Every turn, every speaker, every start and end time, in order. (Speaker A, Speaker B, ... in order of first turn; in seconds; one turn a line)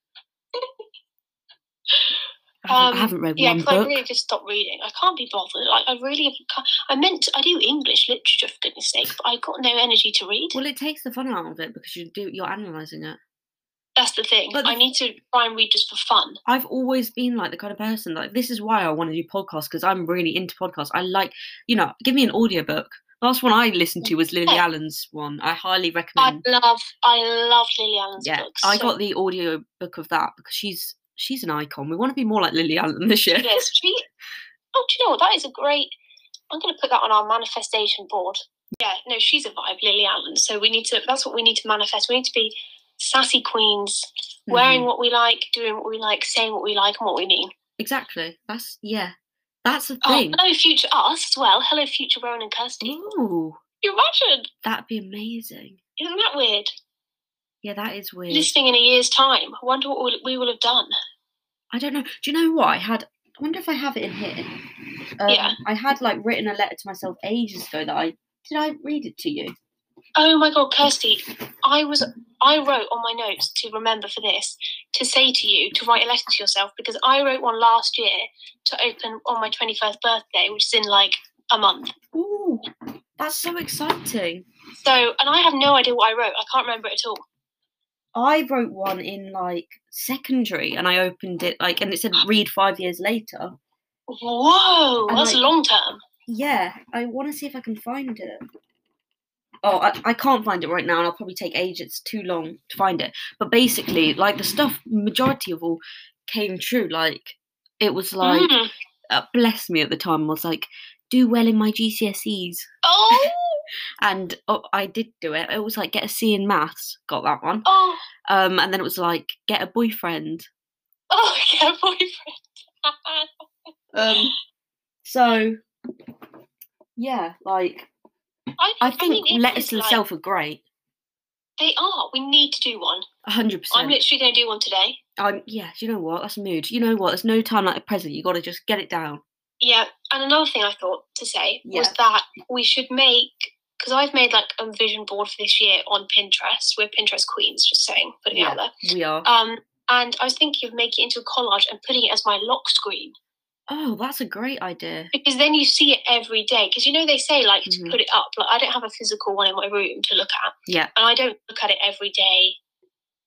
Speaker A: 2.6-4.0
Speaker B: 2.7-10.6
Speaker A: 10.5-13.2
Speaker B: 14.0-16.4
Speaker A: 14.5-14.8
Speaker A: 16.5-26.4
Speaker B: 26.2-28.9
Speaker A: 28.2-33.6
Speaker B: 33.4-34.0
Speaker B: 34.7-35.9
Speaker B: 36.5-47.5
Speaker A: 44.5-44.9
Speaker A: 47.8-50.4
Speaker B: 50.0-53.0
Speaker A: 52.8-53.6
Speaker B: 53.8-54.5
Speaker A: 54.6-55.8
Speaker B: 56.0-56.7
Speaker A: 57.6-58.5
Speaker B: 58.3-60.9
Speaker A: 61.7-64.5
Speaker A: 65.2-69.5
Speaker B: 65.3-65.6
Speaker B: 70.2-81.9
Speaker A: 82.1-82.7
Speaker A: 83.2-84.5
Speaker B: 84.8-87.2
Speaker A: 88.1-93.6
Speaker B: 94.1-96.0
Speaker A: 95.1-95.4
Speaker A: 96.3-98.4
Speaker A: 99.6-108.5
Speaker B: 108.2-108.7
Speaker A: 109.1-113.2
Speaker B: 112.8-113.7
Speaker A: 114.0-117.7
Speaker B: 117.7-118.0
Speaker A: 118.3-120.5
Speaker B: 121.1-123.3
Speaker A: 123.9-124.3
Speaker A: 125.0-125.6
Speaker A: 127.0-127.9
Speaker B: 128.6-130.0
Speaker A: 128.8-130.6
Speaker B: 131.6-133.1
Speaker A: 133.2-134.0
Speaker B: 133.7-135.0
Speaker A: 135.2-139.2
Speaker B: 139.6-148.7
Speaker A: 141.7-141.9
Speaker A: 148.3-149.3
Speaker B: 149.2-153.2
Speaker A: 153.7-155.1
Speaker B: 155.1-162.6
Speaker A: 157.7-158.0